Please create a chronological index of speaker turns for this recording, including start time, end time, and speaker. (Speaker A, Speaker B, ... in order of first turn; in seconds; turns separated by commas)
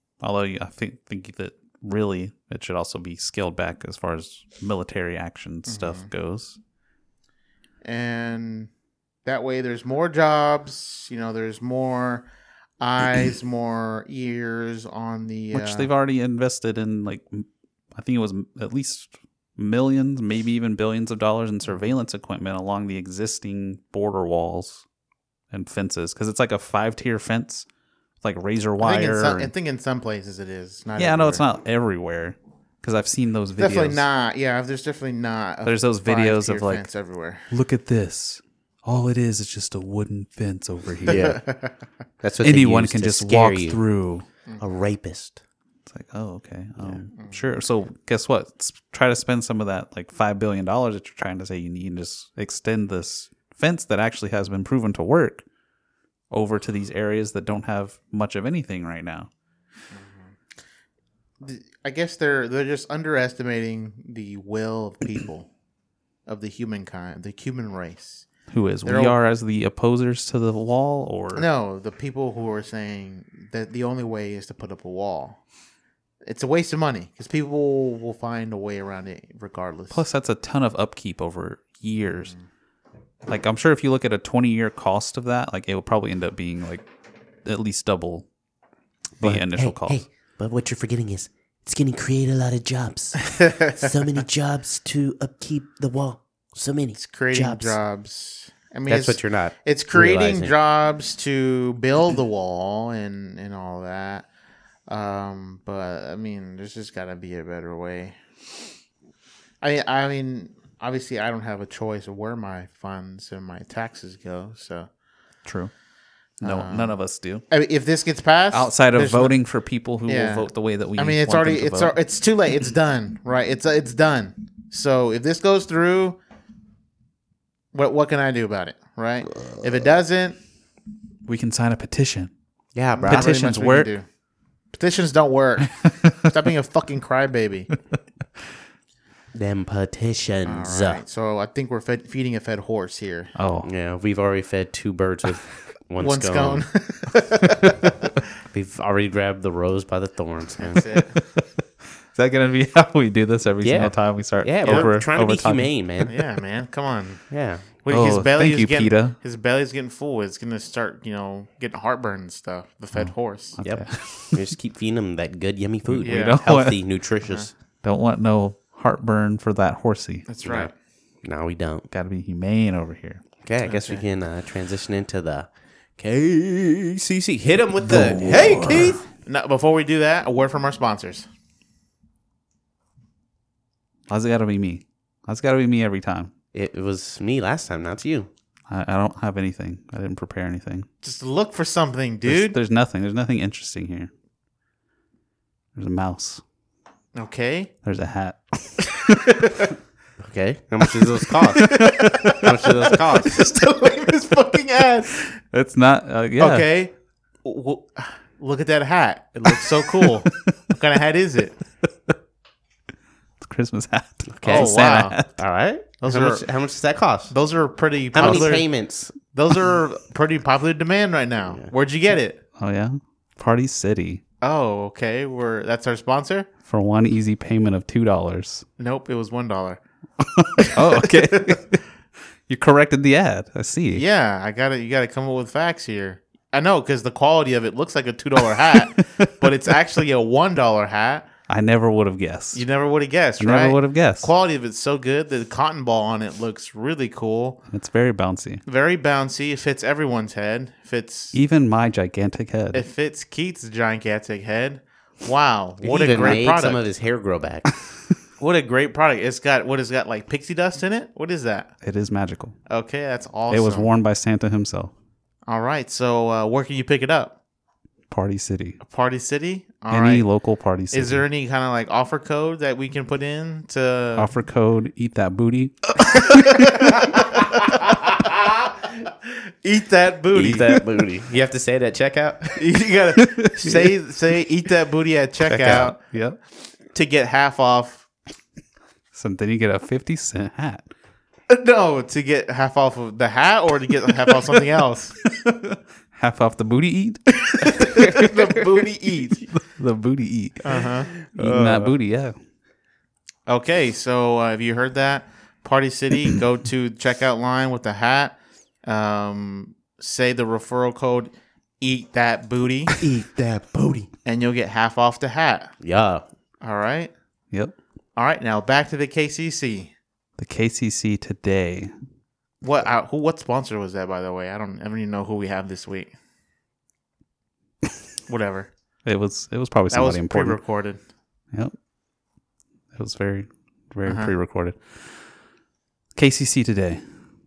Speaker A: 0.2-6.6, Speaker B: 5.7-6.1, Speaker B: 7.8-8.7, Speaker B: 9.2-12.3, Speaker B: 12.8-15.9, Speaker A: 15.5-24.8, Speaker A: 25.5-27.7, Speaker A: 28.2-29.5, Speaker B: 28.8-31.4, Speaker A: 31.0-34.0, Speaker B: 33.6-37.5, Speaker A: 35.6-36.9, Speaker A: 37.5-41.4, Speaker C: 41.1-41.4, Speaker B: 41.1-41.7, Speaker C: 42.2-43.8, Speaker A: 42.4-44.3, Speaker C: 44.6-45.4, Speaker A: 45.9-55.5, Speaker B: 47.1-47.4, Speaker A: 56.3-59.3, Speaker B: 59.9-60.3, Speaker B: 61.4-65.5, Speaker B: 66.3-68.3, Speaker A: 68.5-71.5, Speaker B: 68.8-69.2, Speaker B: 71.3-75.4, Speaker B: 76.2-80.0, Speaker A: 79.9-82.3, Speaker A: 83.3-86.8, Speaker A: 87.5-88.3, Speaker A: 89.2-90.0, Speaker C: 89.2-97.8, Speaker B: 97.0-104.3, Speaker C: 98.9-100.5, Speaker B: 104.9-108.2, Speaker B: 109.6-114.9, Speaker A: 115.5-115.7, Speaker A: 116.4-117.5, Speaker B: 116.4-116.9, Speaker B: 117.5-119.3, Speaker A: 118.5-122.0, Speaker B: 120.1-126.2, Speaker B: 127.7-130.4, Speaker C: 129.4-129.9, Speaker A: 131.3-132.3, Speaker C: 132.8-133.4, Speaker B: 133.0-134.1, Speaker A: 133.1-133.9, Speaker B: 134.7-137.7, Speaker A: 135.8-136.2, Speaker C: 139.3-141.0, Speaker B: 140.5-143.3, Speaker A: 143.4-143.7, Speaker C: 143.6-146.7, Speaker B: 146.0-147.9, Speaker C: 148.5-150.8, Speaker B: 150.6-151.2, Speaker A: 151.0-151.4, Speaker A: 152.1-156.1, Speaker C: 153.6-156.1, Speaker B: 154.7-155.0, Speaker B: 156.1-157.2, Speaker C: 157.3-157.7, Speaker B: 157.8-163.6, Speaker A: 157.9-159.2, Speaker A: 162.9-164.4, Speaker C: 163.6-167.5, Speaker A: 165.9-166.8, Speaker B: 166.0-166.4, Speaker A: 167.8-170.3, Speaker B: 170.3-170.7, Speaker C: 170.4-170.7, Speaker C: 171.2-171.9, Speaker A: 171.9-173.2, Speaker C: 173.4-179.0, Speaker B: 173.6-174.1, Speaker A: 177.8-178.9, Speaker B: 178.4-181.3, Speaker A: 184.1-186.3, Speaker C: 186.5-188.3, Speaker A: 188.7-190.9, Speaker B: 191.0-192.6, Speaker A: 192.3-194.1, Speaker A: 195.8-196.4, Speaker B: 197.2-197.7, Speaker A: 197.8-199.5, Speaker B: 199.2-199.7, Speaker C: 200.2-203.4, Speaker A: 201.6-202.7, Speaker B: 201.6-205.4, Speaker A: 205.5-206.7, Speaker B: 206.4-206.9, Speaker B: 207.4-211.6, Speaker A: 209.5-210.6, Speaker A: 213.4-215.3, Speaker C: 214.3-217.3, Speaker B: 214.4-215.2, Speaker B: 216.0-216.5, Speaker B: 217.3-218.7, Speaker C: 218.1-219.1, Speaker B: 219.3-222.4, Speaker A: 222.6-224.2, Speaker B: 224.4-226.5, Speaker A: 226.7-228.7, Speaker B: 228.8-229.8, Speaker A: 230.2-231.8, Speaker B: 230.6-231.6, Speaker A: 232.5-234.0, Speaker B: 233.9-241.3, Speaker A: 238.9-239.5, Speaker A: 241.5-242.6, Speaker B: 242.5-247.6, Speaker A: 243.4-244.3, Speaker A: 247.7-248.6, Speaker B: 248.7-251.4, Speaker A: 251.3-252.8, Speaker B: 252.7-256.8, Speaker C: 255.8-257.7, Speaker B: 258.4-261.7, Speaker A: 261.8-262.6, Speaker B: 262.7-263.9, Speaker A: 263.5-264.9, Speaker B: 265.5-267.4, Speaker A: 268.1-268.8, Speaker B: 268.8-270.3, Speaker A: 269.9-271.2, Speaker B: 270.9-274.3, Speaker A: 274.2-277.0, Speaker B: 276.0-280.8, Speaker C: 280.3-282.6, Speaker B: 282.6-286.0, Speaker A: 283.4-283.9, Speaker A: 285.5-286.4, Speaker C: 285.5-285.9, Speaker B: 286.9-288.1, Speaker A: 289.1-290.9, Speaker B: 291.5-295.3, Speaker A: 295.4-298.1, Speaker B: 297.6-299.5, Speaker A: 299.5-300.6, Speaker B: 300.6-301.2, Speaker C: 300.7-301.9, Speaker A: 301.2-302.4, Speaker B: 303.5-313.0, Speaker C: 313.0-314.1, Speaker B: 314.2-315.7, Speaker C: 315.8-316.2, Speaker B: 316.6-317.1, Speaker B: 318.2-319.9, Speaker A: 320.4-321.9, Speaker B: 322.6-326.1, Speaker B: 328.3-328.7, Speaker A: 329.1-330.6, Speaker B: 329.9-331.0, Speaker A: 332.9-335.1, Speaker B: 334.1-334.3, Speaker A: 336.1-337.0